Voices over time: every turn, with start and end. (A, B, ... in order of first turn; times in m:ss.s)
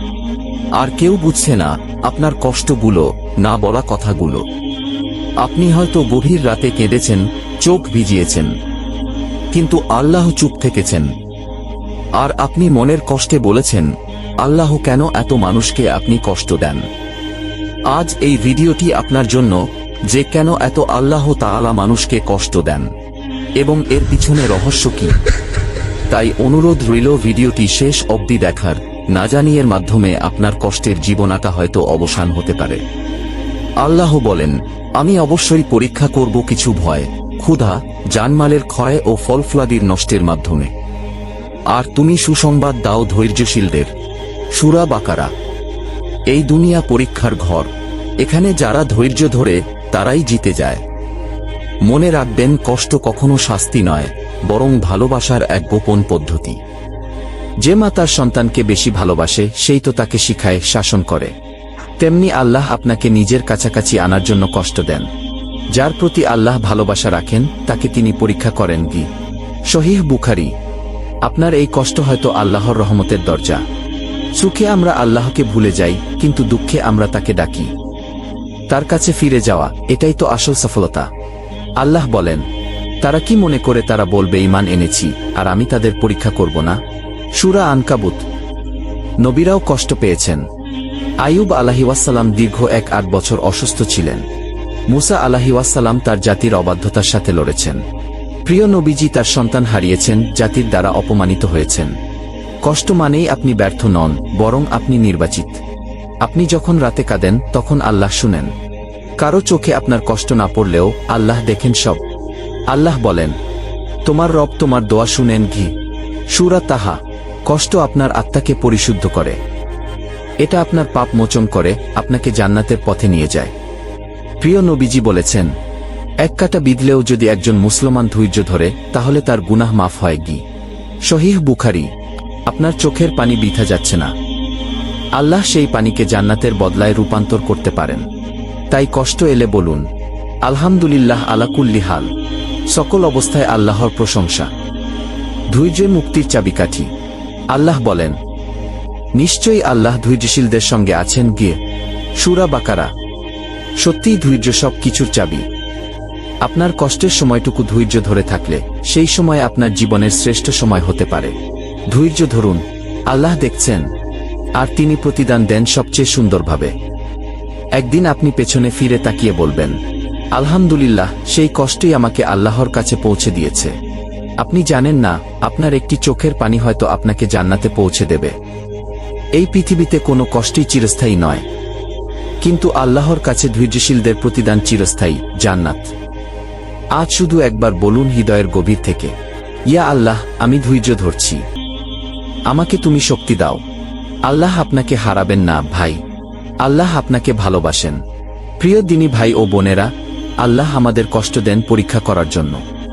0:00.8-0:04.4 A
0:05.4-0:08.5 A
0:09.5-0:11.1 A
0:12.2-0:16.8 A
0:17.9-0:22.9 A
0:23.6-0:25.2 A
0:26.1-0:32.8 A
0:33.8-0:40.7 A
0:41.7-0:43.9 A
0:44.5-0:45.3 A
0:46.3-0:50.8 A
0:51.9-0:56.6 A
0:57.6-1:01.3 A
1:02.0-1:05.1 A
1:05.7-1:09.1 A
1:09.7-1:10.5 A
1:11.3-1:13.6 A
1:14.4-1:17.7 A
1:18.7-1:21.1 A
1:21.8-1:22.4 A
1:23.0-1:26.8 A
1:27.4-1:28.2 A
1:29.2-1:30.4 A
1:31.2-1:34.2 A
1:34.9-1:37.8 A
1:38.5-1:42.0 A
1:42.6-1:45.6 A
1:46.2-1:48.5 A
1:49.2-1:52.0 A
1:52.7-1:53.4 A
1:54.1-1:55.7 A
1:56.3-1:59.4 A
2:00.4-2:03.5 A
2:04.4-2:05.5 A
2:06.2-2:10.4 A
2:11.1-2:11.9 A
2:12.5-2:14.1 A
2:15.2-2:18.1 A
2:18.7-2:19.9 A
2:20.4-2:22.1 A
2:22.7-2:24.5 A
2:25.5-2:26.9 A
2:27.5-2:28.2 A
2:29.2-2:31.6 A
2:32.2-2:32.9 A
2:33.8-2:35.5 A
2:36.4-2:41.4 A
2:41.9-2:43.9 A
2:44.6-2:46.7 A
2:47.8-2:49.8 A
2:50.3-2:53.8 A
2:54.4-2:58.4 A
2:59.4-3:01.4 A
3:02.4-3:05.9 A
3:07.0-3:09.1 A
3:09.7-3:11.4 A
3:12.5-3:13.6 A
3:14.3-3:16.0 A
3:16.6-3:18.0 A
3:18.6-3:22.6 A